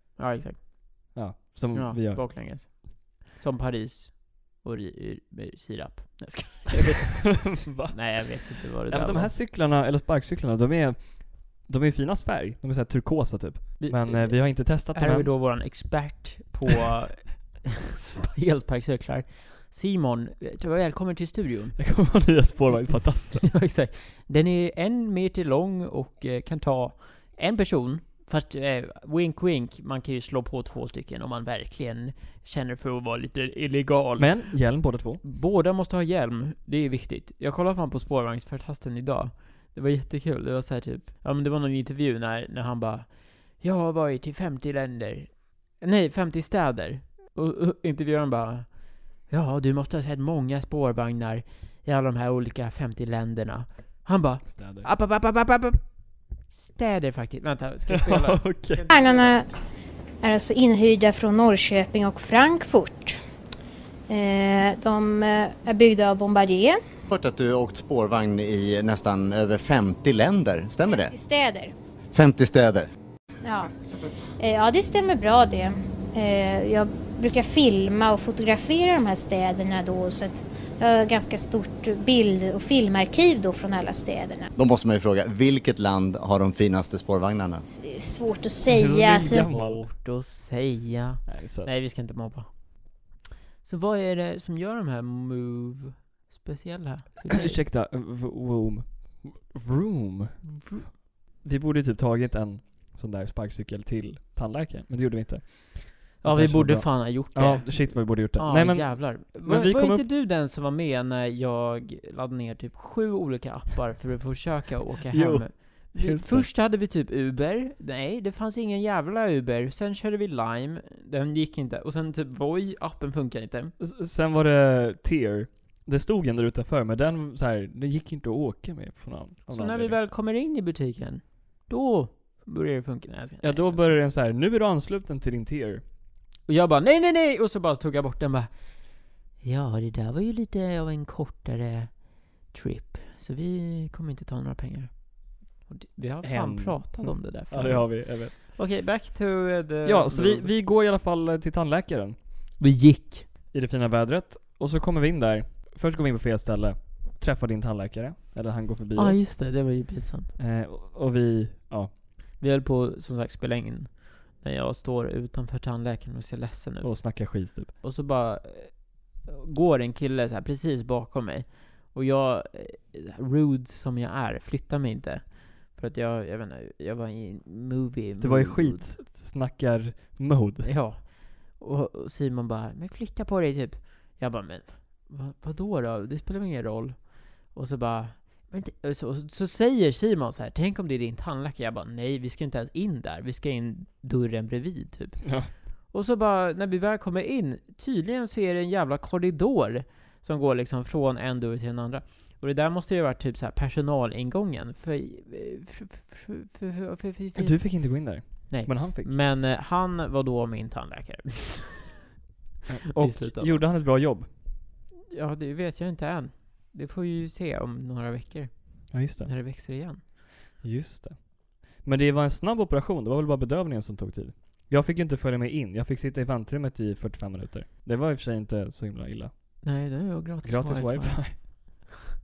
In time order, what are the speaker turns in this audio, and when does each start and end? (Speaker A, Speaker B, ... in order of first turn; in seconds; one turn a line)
Speaker A: 0.2-1.1
Speaker B: 1.1-2.2
Speaker A: 1.7-9.3
Speaker B: 6.8-15.3
Speaker A: 13.8-21.8
Speaker B: 21.8-23.5
Speaker A: 23.4-59.4
Speaker B: 34.2-35.2
Speaker B: 54.5-54.9
Speaker B: 57.9-58.9
Speaker C: 58.9-59.5
Speaker C: 60.2-63.2
Speaker C: 64.1-66.8
Speaker D: 67.1-71.1
Speaker C: 70.8-71.7
Speaker D: 72.1-72.9
Speaker C: 73.4-73.7
Speaker C: 74.4-84.5
Speaker D: 84.5-87.7
Speaker C: 87.7-89.5
Speaker B: 88.7-89.8
Speaker A: 89.1-97.6
Speaker B: 91.2-91.7
Speaker B: 97.3-100.4
Speaker A: 100.5-100.9
Speaker B: 101.4-110.0
Speaker A: 106.2-123.7
Speaker B: 115.1-116.5
Speaker B: 123.8-130.0
Speaker A: 129.5-133.9
Speaker B: 133.4-135.8
Speaker A: 136.5-150.5
Speaker B: 146.2-148.4
Speaker B: 149.8-152.2
Speaker A: 152.6-153.3
Speaker B: 153.5-159.3
Speaker A: 158.9-160.3
Speaker B: 160.4-161.9
Speaker A: 162.4-178.9
Speaker B: 166.8-167.7
Speaker B: 178.2-180.7
Speaker A: 180.6-211.9
Speaker B: 195.2-195.5
Speaker B: 207.3-209.1
Speaker B: 212.7-214.3
Speaker A: 212.9-213.6
Speaker A: 215.1-220.0
Speaker B: 218.9-219.3
Speaker B: 220.6-229.8
Speaker A: 229.6-231.7
Speaker B: 230.4-231.4